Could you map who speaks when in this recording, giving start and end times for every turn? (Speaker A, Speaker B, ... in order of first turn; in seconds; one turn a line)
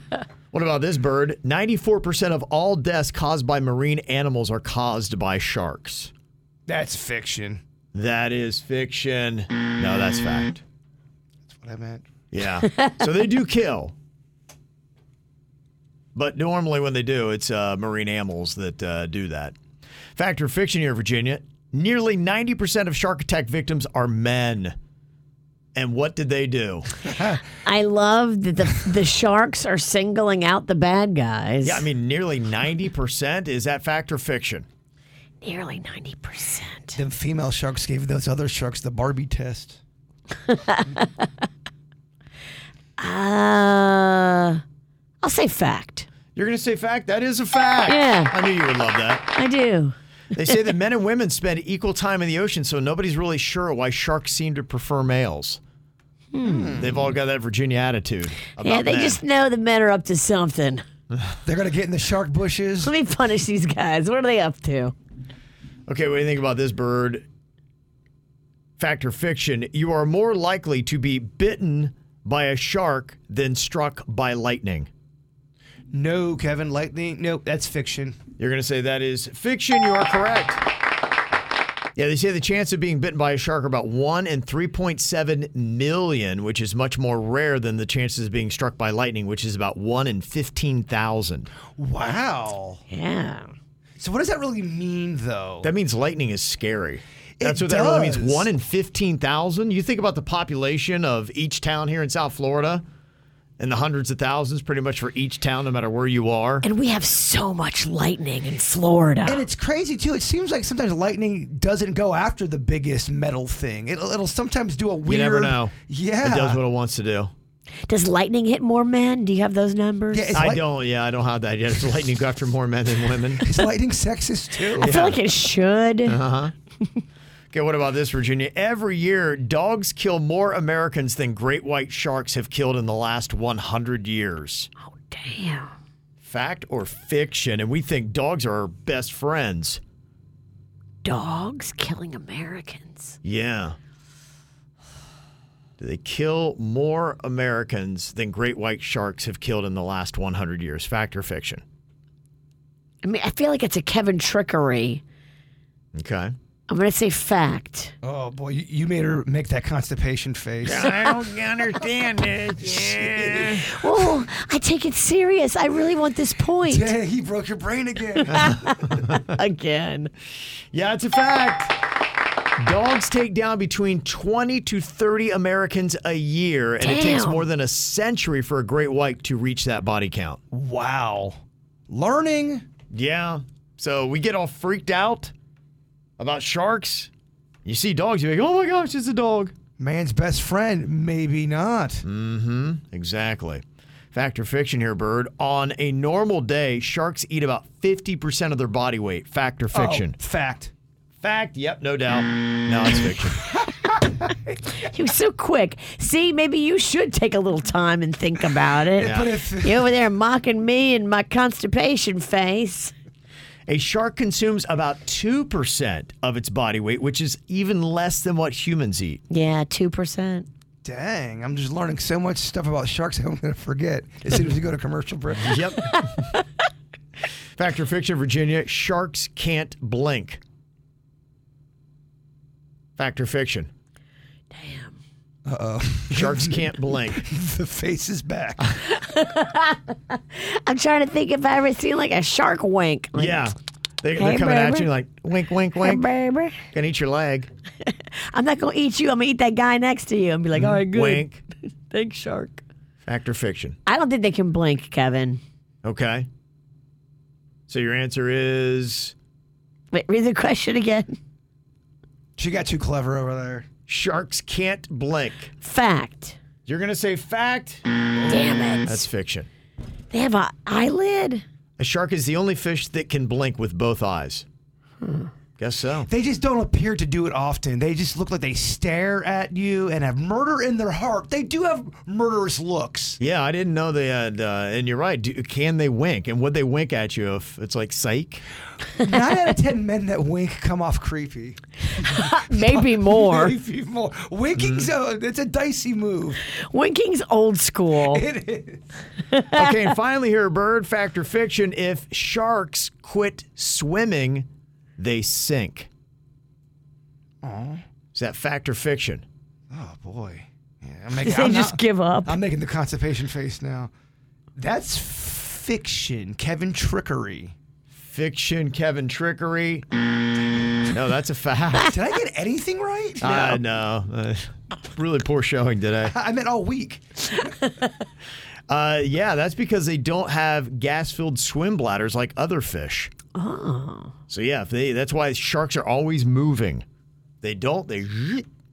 Speaker A: 0.5-6.1
Speaker B: 6.7-7.6
Speaker A: 7.9-10.6
Speaker B: 11.4-12.0
Speaker A: 12.3-13.9
Speaker A: 16.1-19.5
Speaker A: 20.1-24.7
Speaker A: 25.7-27.1
Speaker C: 27.6-31.9
Speaker A: 31.6-34.6
Speaker C: 35.4-37.0
Speaker B: 36.9-39.8
Speaker C: 40.5-41.0
Speaker C: 43.0-44.6
Speaker C: 45.2-46.1
Speaker A: 46.3-49.3
Speaker C: 47.9-48.3
Speaker C: 49.3-49.9
Speaker A: 50.3-55.6
Speaker C: 56.3-56.8
Speaker B: 56.4-57.1
Speaker A: 56.8-59.2
Speaker C: 58.6-60.8
Speaker B: 61.4-62.9
Speaker C: 62.8-64.9
Speaker A: 65.9-67.2
Speaker A: 68.8-74.9
Speaker B: 75.9-78.2
Speaker A: 78.4-80.6
Speaker A: 82.0-91.5
Speaker B: 91.7-92.8
Speaker C: 92.9-93.5
Speaker B: 94.0-95.7
Speaker A: 95.6-102.8
Speaker B: 97.4-98.5
Speaker A: 103.6-106.7
Speaker C: 106.6-109.4
Speaker B: 109.2-116.6
Speaker A: 115.0-117.3
Speaker C: 117.9-120.4
Speaker B: 120.1-120.7
Speaker A: 120.3-123.4
Speaker B: 123.4-124.9
Speaker C: 124.8-126.2
Speaker A: 124.8-125.2
Speaker A: 126.1-126.5
Speaker A: 127.5-134.7
Speaker C: 134.8-135.7
Speaker A: 136.2-139.8
Speaker C: 141.0-143.2
Speaker A: 143.2-143.8
Speaker A: 145.8-151.6
Speaker C: 153.0-155.0
Speaker A: 155.9-156.3
Speaker C: 156.7-157.9
Speaker B: 158.0-160.9
Speaker A: 160.6-163.8
Speaker B: 162.8-163.7
Speaker C: 163.7-166.9
Speaker B: 166.6-168.6
Speaker C: 168.3-168.7
Speaker A: 168.3-169.2
Speaker C: 169.3-170.1
Speaker A: 170.7-171.8
Speaker A: 172.6-180.4
Speaker C: 176.8-177.5
Speaker B: 180.5-181.4
Speaker B: 181.9-182.6
Speaker A: 182.9-185.3
Speaker A: 186.2-187.1
Speaker A: 187.7-189.5
Speaker B: 189.8-192.0
Speaker A: 192.0-200.1
Speaker B: 199.7-200.7
Speaker A: 201.2-203.5
Speaker C: 204.8-212.9
Speaker B: 208.9-209.9
Speaker A: 209.0-209.3
Speaker A: 213.7-219.2
Speaker C: 219.3-220.5
Speaker B: 220.8-225.7
Speaker A: 225.3-226.0
Speaker A: 227.6-230.4
Speaker A: 233.0-233.7
Speaker C: 234.5-235.0
Speaker B: 235.4-238.7
Speaker A: 236.1-237.2
Speaker C: 238.8-243.4
Speaker A: 243.1-246.1
Speaker C: 244.2-244.9
Speaker C: 245.8-246.6
Speaker A: 246.7-247.5
Speaker C: 247.8-251.3
Speaker A: 250.5-251.4
Speaker C: 251.9-252.6
Speaker A: 253.0-253.8
Speaker C: 253.9-255.4
Speaker A: 255.8-256.3
Speaker A: 257.7-259.1
Speaker C: 259.9-261.1
Speaker B: 262.4-263.6
Speaker A: 263.9-265.5
Speaker C: 265.6-266.4
Speaker A: 266.6-269.5
Speaker C: 268.3-269.1
Speaker C: 270.1-271.4
Speaker A: 271.8-274.4
Speaker C: 275.0-275.3
Speaker A: 275.6-276.1
Speaker B: 276.1-283.2
Speaker A: 283.2-288.4
Speaker B: 289.0-296.4
Speaker C: 292.0-293.6
Speaker A: 294.5-294.9
Speaker C: 296.5-298.2
Speaker B: 297.9-298.8
Speaker C: 299.3-299.7
Speaker A: 299.5-305.9
Speaker B: 307.4-307.8
Speaker A: 308.1-309.2
Speaker B: 309.7-313.9
Speaker C: 311.2-312.4
Speaker B: 314.6-317.5
Speaker A: 317.9-319.9
Speaker A: 320.9-321.9
Speaker B: 321.8-323.6
Speaker A: 323.2-326.1
Speaker B: 326.0-327.2
Speaker A: 328.7-333.1
Speaker C: 333.3-334.1
Speaker A: 334.3-336.8
Speaker A: 337.4-338.4